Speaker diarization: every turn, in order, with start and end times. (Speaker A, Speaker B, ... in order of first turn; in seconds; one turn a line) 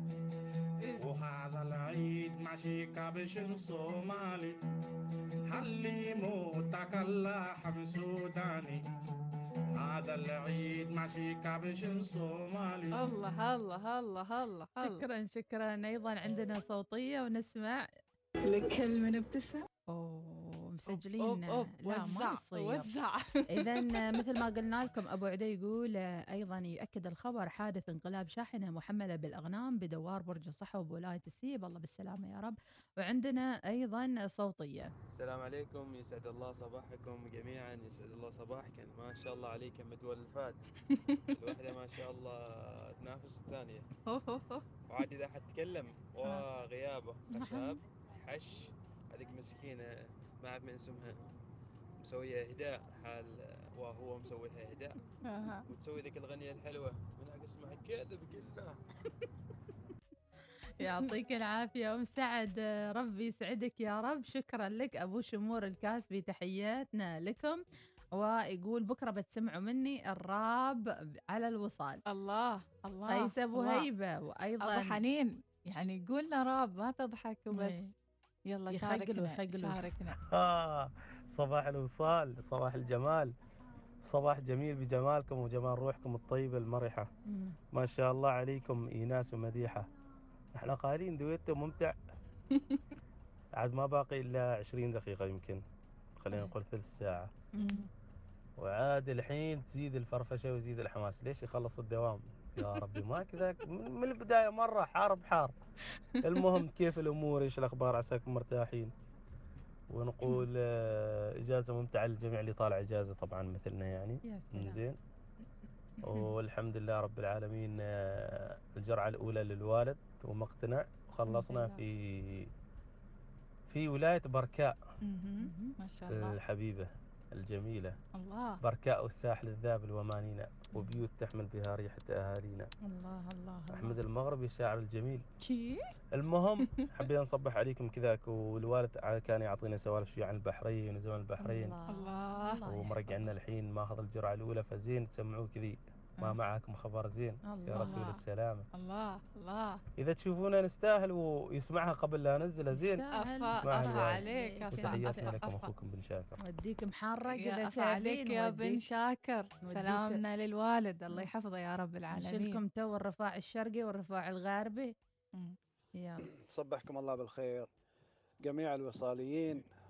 Speaker A: 1.0-4.5
Speaker A: 5.5-8.8
Speaker A: 9.8-12.9
Speaker B: 12.9-15.0
Speaker C: 14.8-17.8
Speaker B: 18.5-19.6
Speaker C: 19.9-22.9
Speaker B: 20.9-24.0
Speaker C: 23.5-34.9
Speaker D: 35.1-40.6
Speaker D: 41.3-43.8
Speaker B: 44.1-44.6
Speaker D: 44.9-51.2
Speaker C: 47.3-47.7
Speaker D: 52.0-55.0
Speaker B: 55.2-55.6
Speaker D: 55.7-58.8
Speaker C: 60.8-67.6
Speaker C: 68.1-72.0
Speaker B: 72.1-73.9
Speaker C: 73.1-75.0
Speaker B: 74.6-77.9
Speaker C: 77.5-77.9
Speaker B: 78.5-80.2
Speaker C: 78.7-79.9
Speaker E: 80.3-83.3
Speaker E: 84.0-87.1
Speaker C: 87.3-87.5
Speaker E: 87.7-89.9
Speaker E: 90.6-91.9
Speaker E: 93.6-95.6
Speaker E: 96.2-97.3
Speaker C: 97.6-97.9
Speaker B: 97.6-97.8
Speaker E: 98.6-105.5
Speaker E: 106.2-108.9
Speaker E: 109.9-115.0
Speaker C: 114.2-114.8
Speaker C: 116.0-116.3
Speaker E: 116.0-122.5
Speaker B: 121.3-121.6
Speaker C: 121.3-121.7
Speaker E: 123.7-124.8
Speaker B: 125.0-126.3
Speaker C: 125.4-125.7
Speaker E: 126.1-128.0
Speaker B: 128.2-128.6
Speaker E: 128.6-132.7
Speaker C: 132.9-134.0
Speaker E: 133.7-135.2
Speaker B: 135.4-135.8
Speaker E: 136.2-141.8
Speaker C: 141.4-143.3
Speaker B: 141.9-142.6
Speaker E: 142.7-148.7
Speaker C: 147.4-148.0
Speaker B: 147.7-148.2
Speaker B: 148.7-149.8
Speaker E: 150.0-153.0
Speaker C: 152.7-155.4
Speaker B: 153.1-155.7
Speaker E: 153.6-156.4
Speaker C: 156.4-158.8
Speaker B: 157.3-162.6
Speaker C: 159.6-160.2
Speaker C: 162.1-164.9
Speaker C: 166.0-166.2
Speaker F: 166.3-167.7
Speaker F: 168.4-169.6